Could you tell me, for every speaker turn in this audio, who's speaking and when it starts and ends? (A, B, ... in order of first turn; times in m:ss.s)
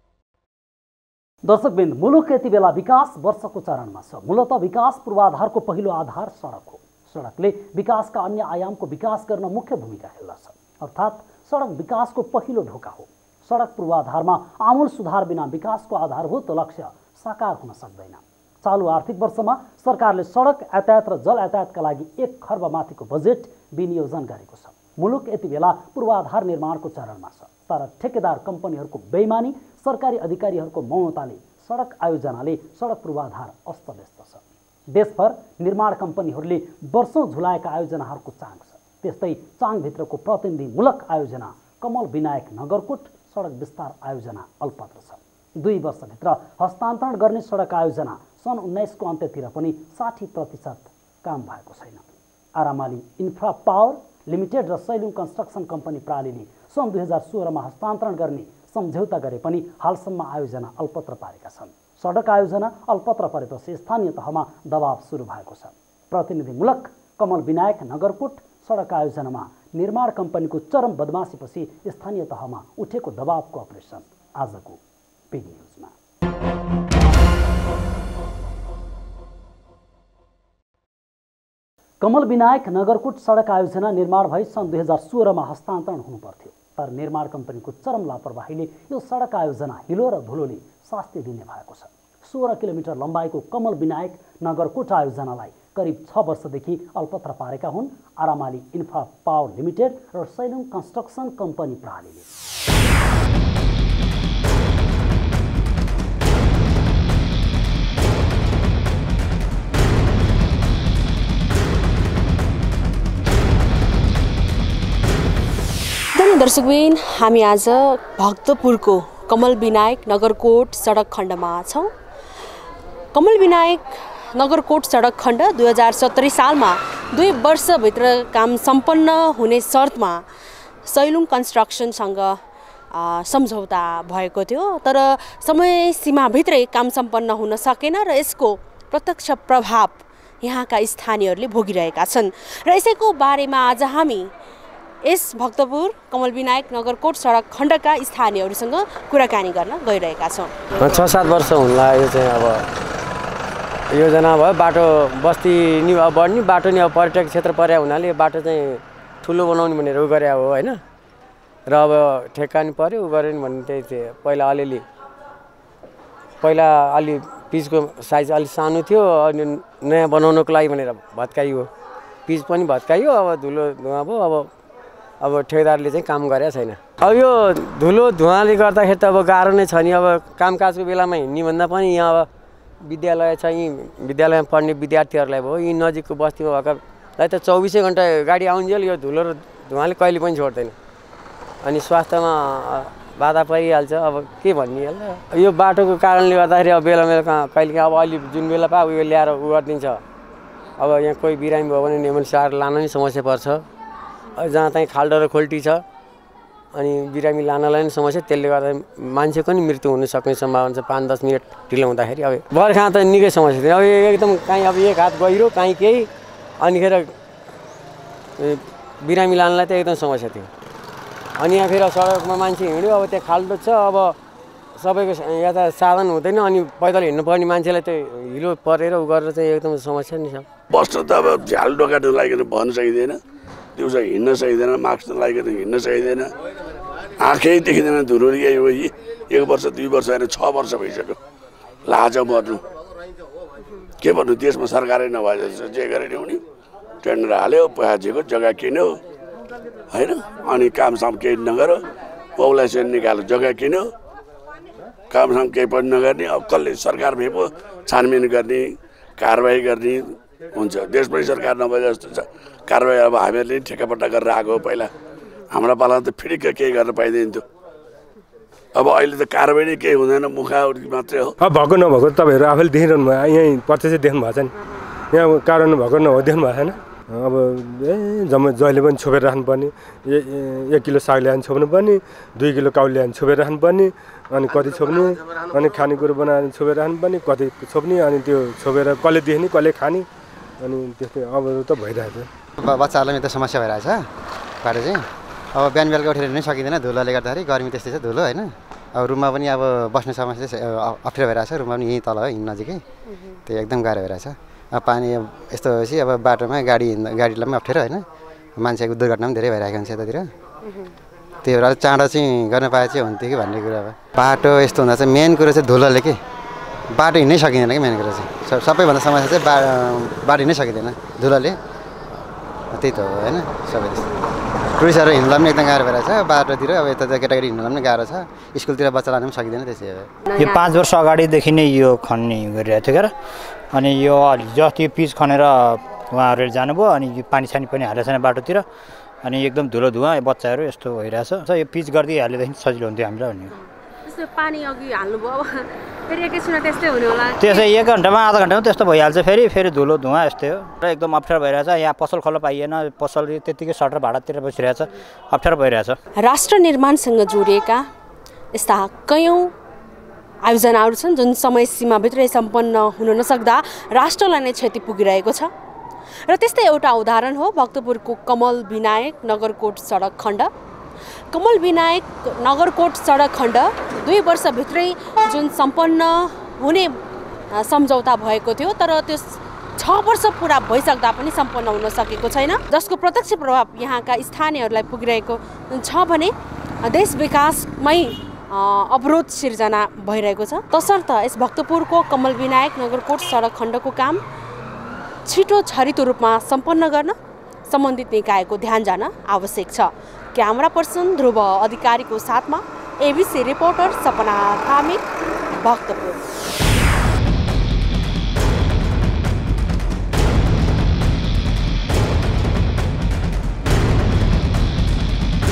0:01.4-0:52.0 A
0:52.6-1:14.8 A
1:15.3-1:15.9 A
1:22.0-1:42.3 A
1:56.1-2:01.9 B
2:03.1-2:03.8 B
2:04.3-2:10.2 B
2:10.8-2:12.4 B
2:12.9-2:24.3 B
2:25.0-2:30.5 B
2:30.8-2:32.6 C
2:33.9-2:40.8 C
2:41.7-2:44.8 C
2:46.4-2:51.7 C
2:52.2-2:54.5 C
2:55.2-3:02.3 C
3:02.8-3:10.7 C
3:11.6-3:20.0 C
3:20.8-3:23.6 C
3:24.4-3:25.8 C
3:26.7-3:37.2 C
3:38.4-3:40.5 C
3:41.4-3:44.2 C
3:44.8-3:50.4 C
3:50.7-3:53.2 D
3:53.8-3:56.3 D
3:57.2-4:01.2 D
4:01.8-4:02.6 D
4:04.0-4:06.4 D
4:07.0-4:09.0 D
4:09.9-4:11.8 D
4:12.4-4:13.9 D
4:15.1-4:24.9 D
4:25.5-4:27.4 D
4:28.7-4:31.3 D
4:31.4-4:34.5 E
4:35.1-4:50.0 E
4:50.6-4:52.3 E
4:52.6-4:54.1 F
4:54.6-5:02.8 F
5:03.0-5:03.4 B
5:03.4-5:08.0 F
5:08.6-5:10.3 F
5:10.6-5:10.9 B
5:11.4-5:16.2 F
5:16.9-5:21.6 F
5:22.7-5:24.1 F
5:24.7-5:30.1 F
5:30.3-5:30.6 B
5:30.4-5:33.1 G
5:33.7-5:38.6 G
5:39.2-5:43.5 G
5:43.5-5:47.6 B
5:47.4-5:56.0 G
5:56.2-5:57.9 B
5:58.5-5:59.5 B
6:00.4-6:05.5 B
6:06.3-6:10.5 B
6:11.3-6:17.0 B
6:17.5-6:34.2 B
6:35.2-6:37.2 B
6:37.7-6:45.0 B
6:45.6-6:46.2 B